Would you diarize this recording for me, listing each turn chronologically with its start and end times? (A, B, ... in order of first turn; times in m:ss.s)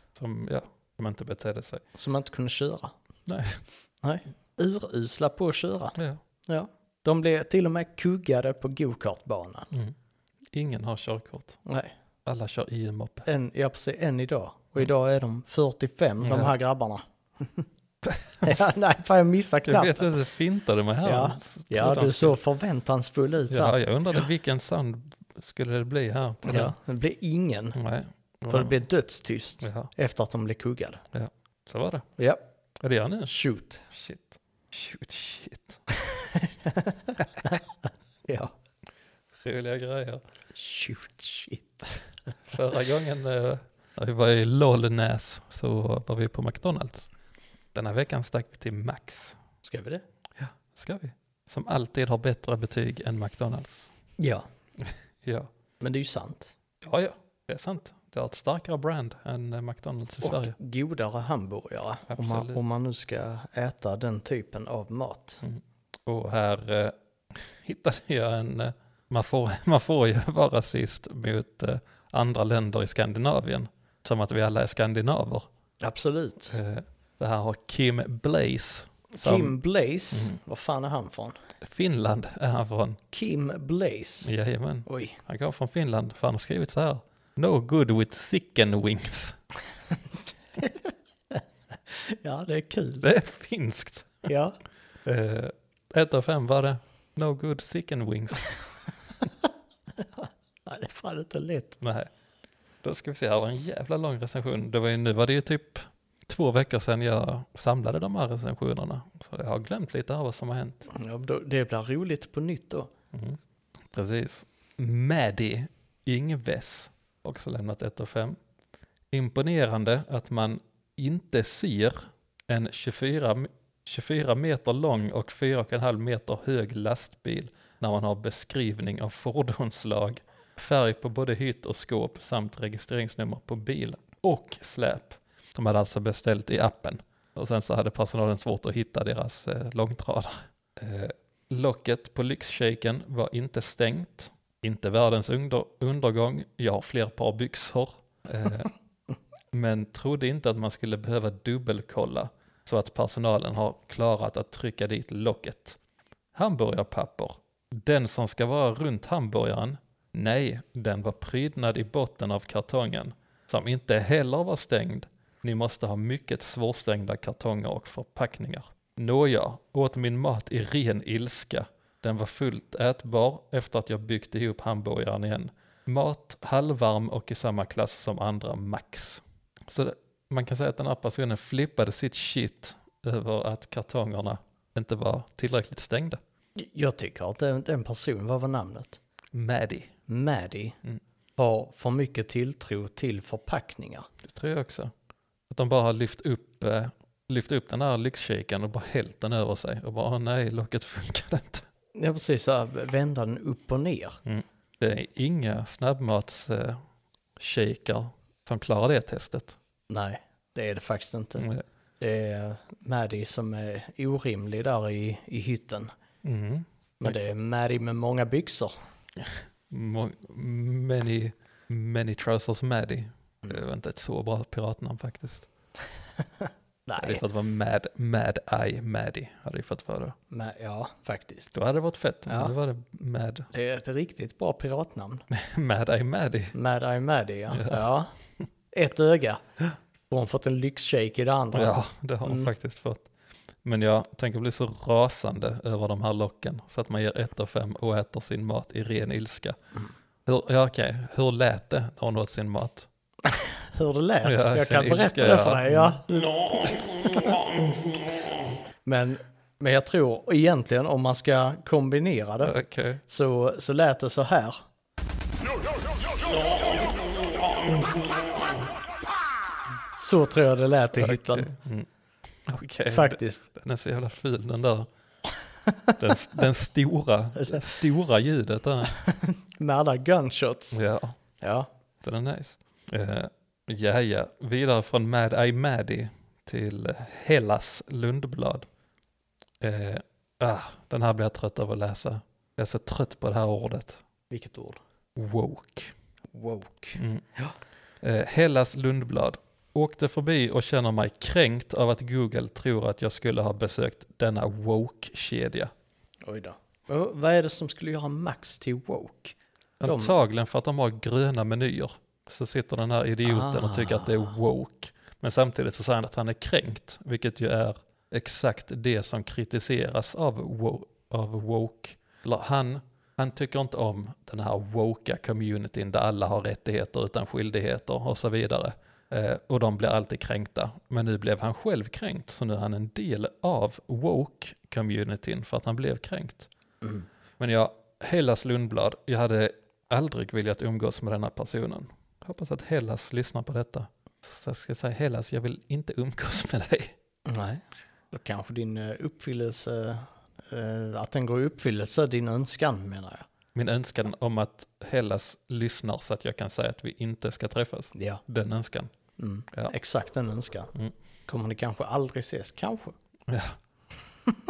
0:00.1-0:01.8 A
0:01.9-0:02.9 B
0:03.3-0:03.6 A
0:04.0-0:06.0 B
0:06.0-0:06.2 A
0:06.5-0:09.7 B
0:10.5-0:11.6 A
0:11.6-0:11.9 B
0:12.2-0:13.3 A
0:13.3-0:17.7 B
0:16.2-0:16.5 A
0:18.0-0:18.5 A
0:18.4-0:20.1 B
0:19.6-0:22.4 A
0:21.0-0:24.3 B
0:23.5-0:26.7 A
0:26.4-0:27.8 B
0:27.8-0:28.8 A
0:28.5-0:31.0 B
0:29.6-0:29.9 A
0:31.1-0:32.1 A
0:32.2-0:32.4 B
0:32.8-0:33.3 A
0:33.3-0:33.8 B
0:33.9-0:35.8 A
0:35.9-0:37.6 B
0:38.3-0:38.5 B
0:39.4-0:40.2 A
0:40.5-0:41.8 B
0:42.4-0:47.1 A
0:47.7-0:49.4 A
0:49.6-0:50.0 B
0:50.4-0:53.9 A
0:54.2-0:54.4 B
0:54.8-0:55.5 A
0:55.8-0:56.5 B
0:56.8-1:00.6 A
1:00.2-1:05.4 B
1:02.1-1:02.6 A
1:05.4-1:15.5 A
1:15.8-1:16.6 B
1:16.5-1:19.6 A
1:19.1-1:21.4 B
1:21.6-1:23.0 A
1:23.1-1:24.3 B
1:24.2-1:29.4 A
1:24.8-1:25.2 B
1:30.6-1:33.0 B
1:33.0-1:34.3 A
1:34.2-1:34.6 B
1:35.0-1:38.5 A
1:40.0-1:41.8 B
1:41.8-1:42.1 A
1:42.8-1:50.9 A
1:50.9-1:52.9 B
1:53.9-1:58.4 A
1:59.1-2:28.7 A
2:29.5-2:35.8 A
2:36.3-3:06.2 A
3:06.6-3:09.0 B
3:09.3-3:09.9 A
3:10.1-3:10.8 B
3:11.4-3:14.1 B
3:14.2-3:14.9 A
3:15.5-3:21.6 A
3:21.9-3:24.2 B
3:24.2-3:26.8 A
3:27.4-3:29.6 A
3:29.9-3:31.4 B
3:31.4-3:31.6 A
3:32.0-3:35.9 B
3:36.2-3:37.1 A
3:37.0-3:38.7 B
3:39.2-3:45.5 A
3:46.4-3:47.2 B
3:47.0-3:50.2 A
3:50.3-3:51.5 B
3:51.5-3:53.5 A
3:52.3-3:52.5 B
3:53.5-3:55.2 B
3:55.3-3:56.6 A
3:56.5-3:58.1 B
3:57.5-3:57.8 A
3:58.7-3:59.4 B
4:00.1-4:02.5 B
4:01.5-4:03.1 A
4:03.6-4:09.6 A
4:10.2-4:12.9 A
4:13.2-4:17.3 B
4:14.2-4:16.0 A
4:16.8-4:17.5 A
4:18.8-4:22.5 B
4:22.4-4:23.0 A
4:23.1-4:24.6 B
4:29.9-4:31.5 B
4:31.0-4:31.9 A
4:32.5-4:34.9 A
4:32.9-4:33.4 B
4:35.7-4:35.9 B
4:36.0-4:39.0 A
4:38.8-4:40.8 B
4:40.7-4:41.2 A
4:41.4-4:41.7 B
4:42.0-4:48.7 A
4:49.6-4:54.0 A
4:54.3-4:54.8 B
4:55.2-4:55.9 A
4:56.3-4:57.5 B
4:57.0-4:57.2 A
4:58.0-5:05.7 A
5:06.2-5:10.1 B
5:09.8-5:36.5 A
5:13.2-5:14.3 B
5:37.4-5:47.0 A
5:47.2-5:53.3 B
5:53.5-5:58.9 A
5:58.0-5:58.2 B
5:59.2-6:00.7 B
6:01.3-6:02.9 B
6:03.3-6:03.6 A